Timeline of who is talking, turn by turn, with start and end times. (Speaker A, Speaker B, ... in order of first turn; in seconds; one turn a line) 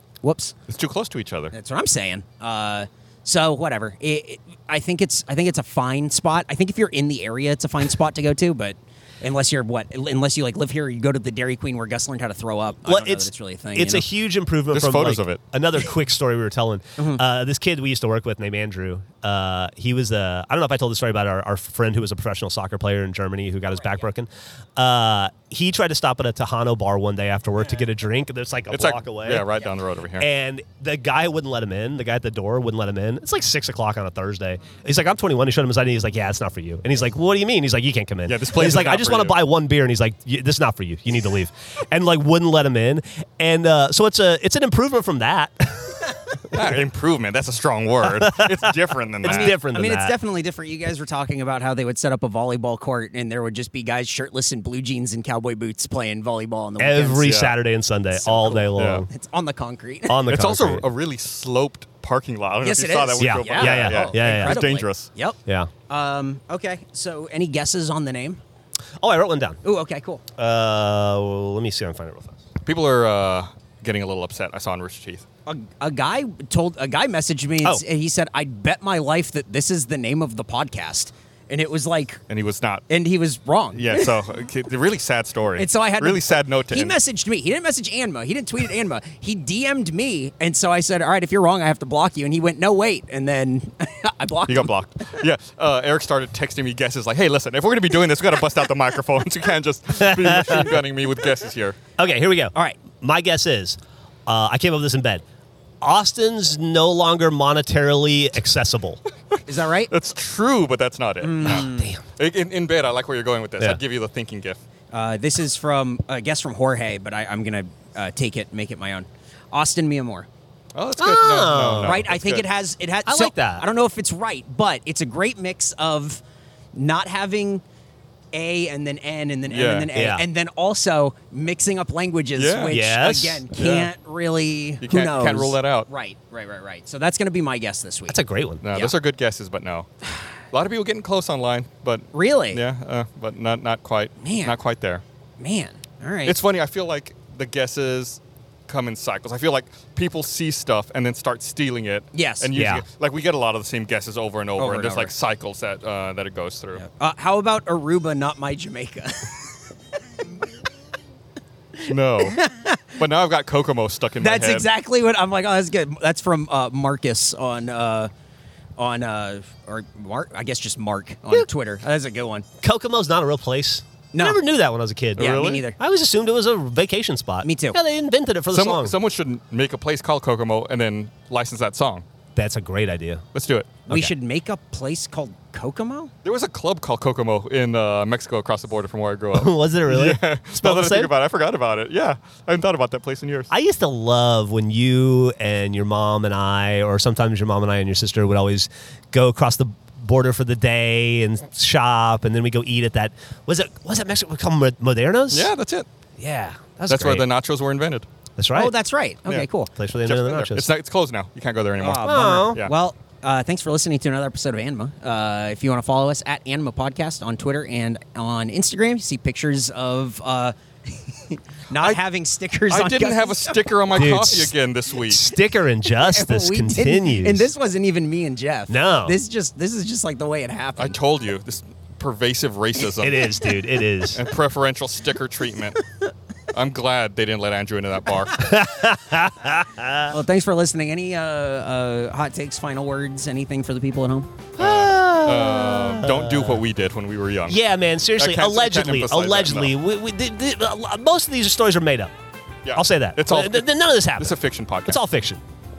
Speaker A: 0.2-0.6
Speaker B: 0.7-1.5
Speaker A: 1.5-14.0
Speaker C: 12.8-29.5
Speaker B: 14.7-15.4
Speaker B: 28.7-30.3
Speaker C: 30.2-46.7
Speaker B: 38.2-39.4
Speaker B: 46.5-49.5
Speaker C: 48.1-48.7
Speaker C: 49.2-50.1
Speaker A: 49.2-57.4
Speaker C: 56.8-59.1
Speaker B: 57.2-57.5
Speaker A: 58.1-60.2
Speaker B: 58.8-59.0
Speaker C: 60.1-60.8
Speaker B: 60.3-65.1
Speaker A: 62.6-68.4
Speaker C: 63.2-64.6
Speaker C: 69.0-69.6
Speaker A: 69.6-70.2
Speaker C: 70.3-72.4
Speaker B: 72.6-75.2
Speaker A: 75.5-82.2
Speaker B: 82.3-82.8
Speaker A: 82.9-84.2
Speaker B: 83.7-87.0
Speaker A: 85.6-95.2
Speaker B: 94.5-101.8
Speaker C: 100.0-100.8
Speaker C: 102.0-105.2
Speaker C: 105.8-109.0
Speaker B: 109.3-114.6
Speaker A: 109.5-109.9
Speaker A: 111.2-111.9
Speaker C: 111.4-112.0
Speaker A: 114.9-120.3
Speaker B: 120.7-122.5
Speaker C: 121.0-122.0
Speaker A: 121.8-126.2
Speaker C: 123.0-123.7
Speaker A: 126.7-127.6
Speaker A: 128.3-138.2
Speaker B: 129.5-129.9
Speaker C: 129.9-130.2
Speaker B: 132.3-132.8
Speaker C: 132.7-133.9
Speaker B: 134.8-135.9
Speaker C: 138.1-138.6
Speaker B: 138.6-139.9
Speaker B: 140.5-145.0
Speaker A: 142.1-142.6
Speaker A: 144.2-144.5
Speaker A: 145.4-146.4
Speaker B: 146.2-156.8
Speaker A: 152.1-152.5
Speaker C: 152.5-152.8
Speaker A: 154.6-155.1
Speaker A: 156.8-159.6
Speaker A: 161.8-163.0
Speaker B: 161.8-162.4
Speaker B: 162.9-164.7
Speaker A: 164.2-168.1
Speaker A: 168.8-172.4
Speaker C: 172.6-178.9
Speaker A: 174.1-174.4
Speaker A: 175.2-175.8
Speaker B: 175.2-175.6
Speaker A: 177.4-177.8
Speaker B: 178.5-182.0
Speaker C: 182.3-183.2
Speaker B: 183.3-183.7
Speaker A: 183.8-186.1
Speaker B: 186.2-193.5
Speaker C: 189.3-191.1
Speaker C: 193.5-205.5
Speaker B: 205.3-205.9
Speaker C: 206.2-207.2
Speaker B: 206.9-208.1
Speaker C: 208.4-208.7
Speaker A: 208.5-209.7
Speaker C: 209.7-210.7
Speaker B: 210.0-212.7
Speaker A: 211.8-220.5
Speaker C: 212.0-212.7
Speaker A: 221.1-224.3
Speaker B: 222.7-225.3
Speaker C: 223.9-227.4
Speaker A: 225.8-231.0
Speaker C: 228.7-229.2
Speaker B: 230.8-233.4
Speaker C: 233.0-234.2
Speaker B: 234.1-235.8
Speaker B: 236.5-238.4
Speaker C: 238.3-240.1
Speaker A: 240.1-244.3
Speaker C: 244.6-246.6
Speaker B: 244.6-247.6
Speaker C: 247.5-252.1
Speaker B: 248.2-249.8
Speaker B: 252.6-255.0
Speaker C: 252.7-255.4